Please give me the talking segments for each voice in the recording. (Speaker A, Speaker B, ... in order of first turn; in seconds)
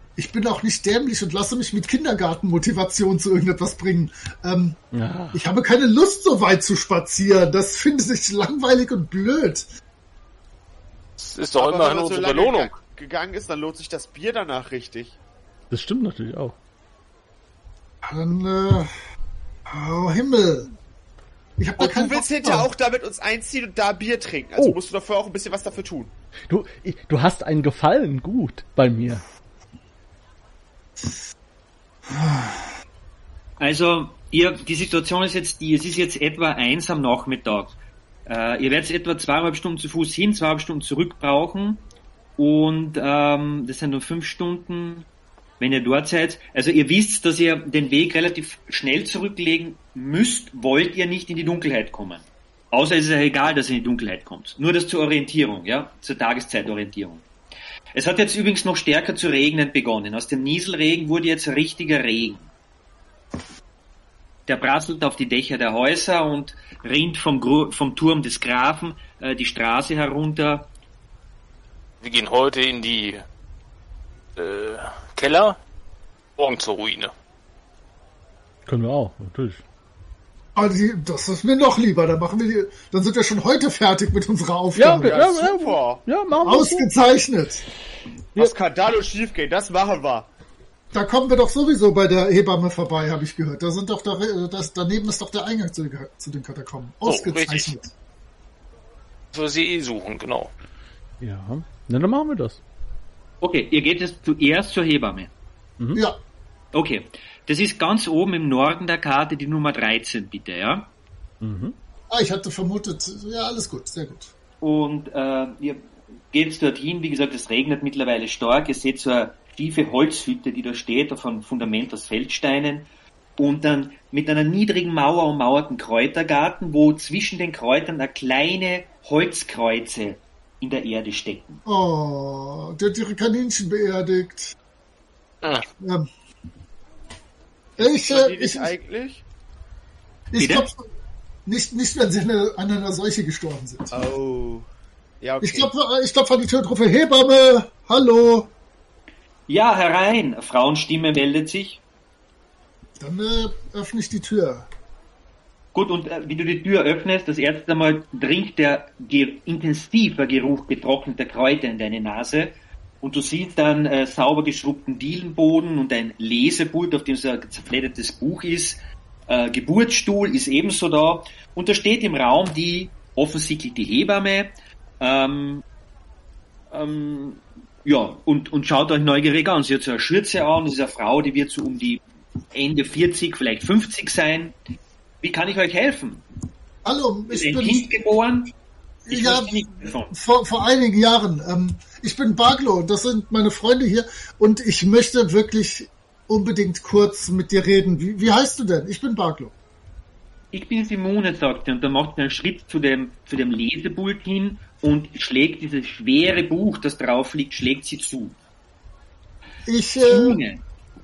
Speaker A: 0.2-4.8, 5.3-9.7, 18.0-18.9, 19.7-20.7, 21.6-22.7, 32.1-32.6, 80.5-85.3, 86.4-87.6, 90.9-97.9, 112.1-114.3, 131.7-134.6, 135.8-136.1, 137.8-138.7, 140.3-140.8, 141.5-144.0, 145.4-148.5, 153.0-154.7, 186.8-187.9, 189.1-199.5, 209.7-210.4
Speaker B: 4.9-5.4, 15.7-16.6, 26.5-29.2, 78.7-79.6, 84.8-86.9, 101.2-102.6, 111.4-111.8
Speaker C: 11.2-12.8, 72.0-73.2, 74.4-75.6, 76.4-77.1, 97.0-97.7, 99.3-100.5
Speaker D: 11.6-15.2, 21.8-26.1, 84.9-86.0, 88.4-90.3, 137.8-139.2, 143.9-144.7, 145.2-145.7
Speaker E: 33.6-37.7, 38.3-41.8, 42.4-45.1, 45.6-57.2, 57.9-62.5, 64.5-70.7, 103.4-105.3, 106.7-110.9, 114.6-131.6, 140.4-140.7, 149.5-151.8, 155.7-175.6, 176.7-182.0, 182.5-184.6, 185.2-186.2, 187.3-188.5, 189.1-190.1, 200.5-208.3, 210.1-210.6